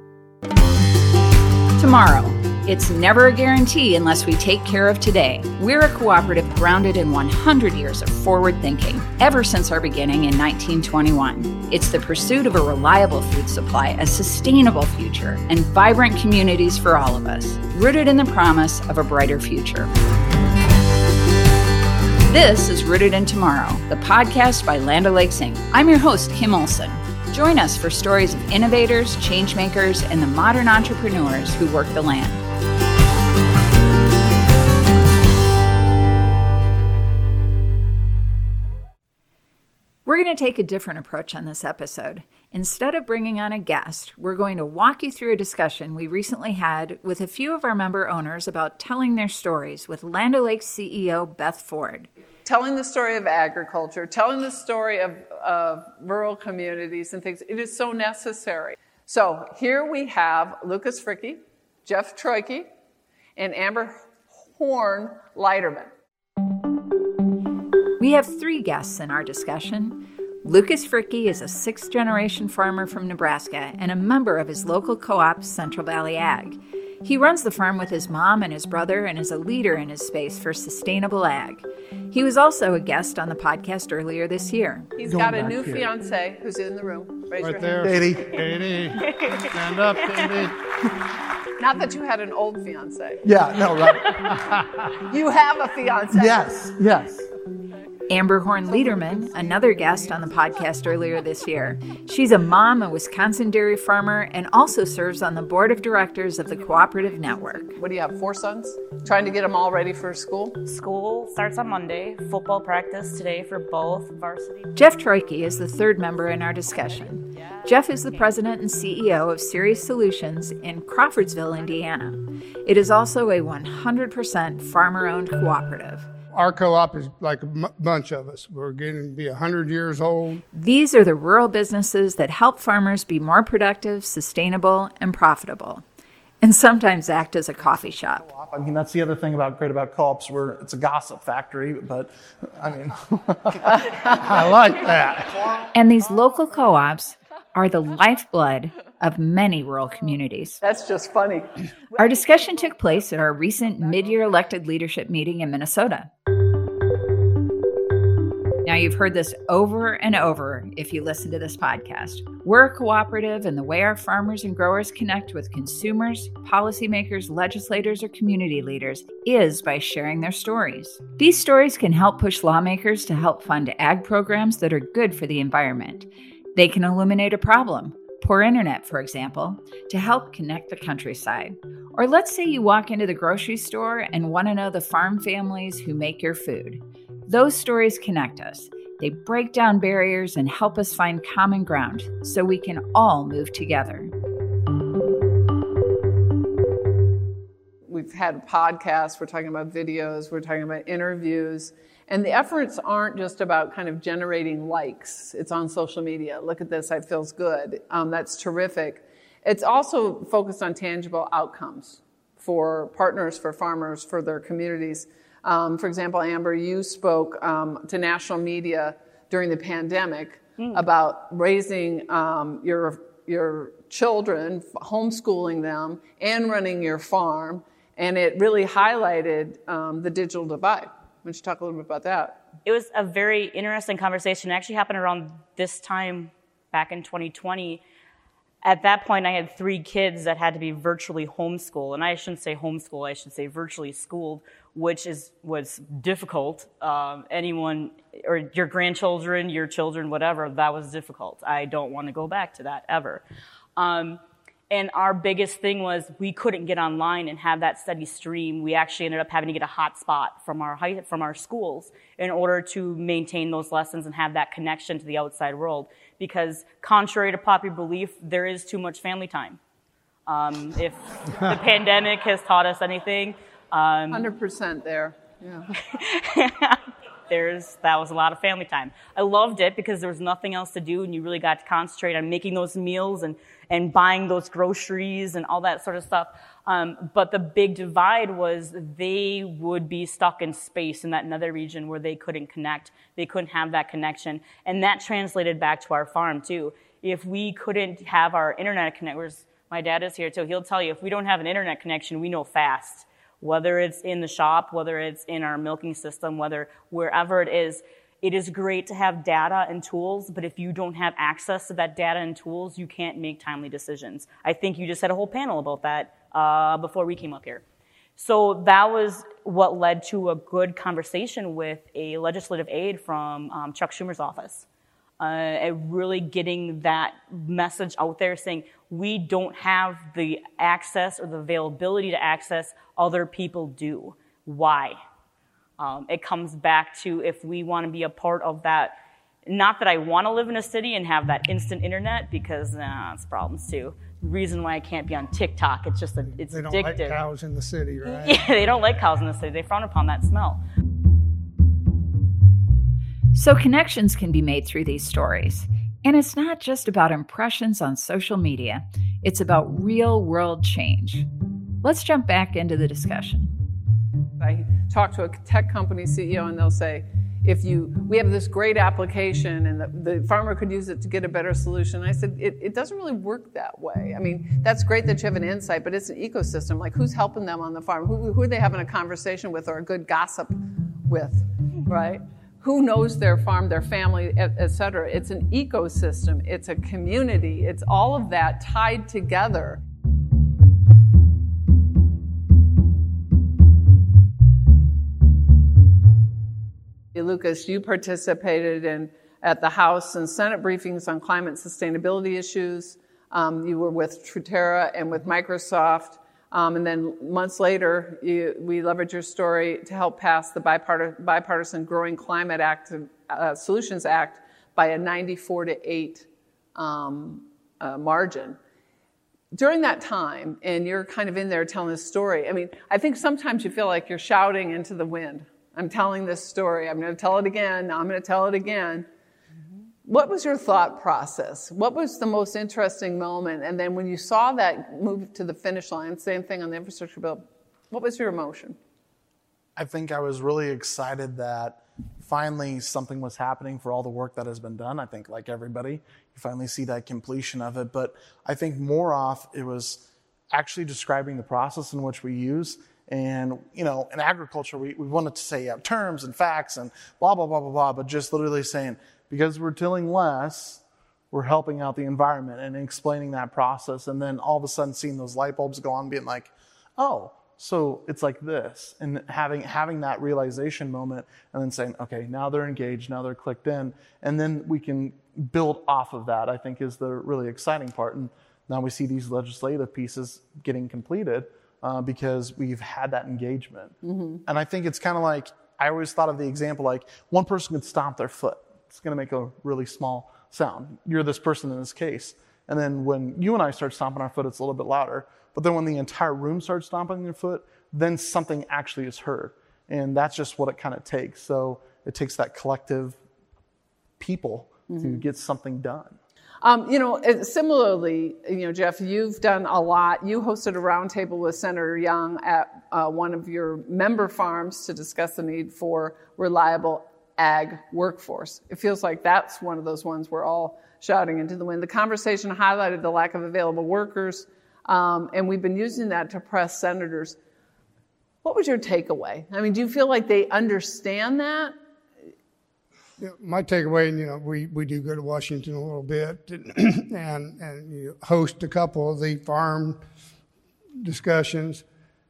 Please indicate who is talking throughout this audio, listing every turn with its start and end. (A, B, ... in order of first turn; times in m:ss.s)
0:01.8-0:19.9 A
0:22.3-0:32.4 A
0:40.1-0:52.1 A
0:52.4-1:02.7 B
1:03.4-1:05.9 B
1:08.0-1:25.0 A
1:25.0-1:28.4 B
1:25.0-1:25.9 C
1:27.4-1:30.6 D
1:27.8-1:28.4 C
1:29.0-1:30.4 E
1:31.6-1:33.2 B
1:33.2-1:34.4 C
1:34.3-1:34.9 D
1:35.1-1:36.4 B
1:36.1-1:37.3 C
1:38.1-1:47.8 A
1:39.5-1:40.0 B
1:47.8-1:50.6 B
1:50.6-1:54.8 E
1:54.8-2:06.1 A
1:56.9-1:58.4 E
2:06.3-2:10.4 D
2:10.5-2:15.8 A
2:16.4-2:18.2 A
2:17.6-2:24.6 C
2:23.8-2:24.4 B
2:24.2-2:25.4 D
2:25.2-2:26.3 C
2:25.7-2:30.6 A
2:30.6-2:31.6 B
2:32.0-2:36.1 A
2:38.6-3:14.1 A
3:17.9-3:52.4 B
3:52.6-3:57.8 E
3:58.6-4:13.2 E
4:13.8-4:29.6 E
4:30.3-4:34.3 E
4:34.1-4:35.7 B
4:35.8-5:17.6 E
5:18.2-5:24.7 E
5:25.2-5:35.0 E
5:35.8-5:38.9 E
5:39.5-5:47.2 E
5:46.4-5:48.5 D
5:48.1-5:50.6 E
5:53.3-6:01.3 A
6:01.8-6:03.5 A
6:04.4-6:29.8 B
6:37.1-6:58.6 B
6:59.5-7:09.1 B
7:10.0-7:18.8 B
7:19.8-8:23.2 C
8:04.0-8:04.4 B
8:24.2-8:26.2 C
8:24.9-8:25.2 B
8:26.6-8:47.4 B
8:48.4-8:51.7 B
8:53.2-9:00.0 D
9:01.0-9:01.8 D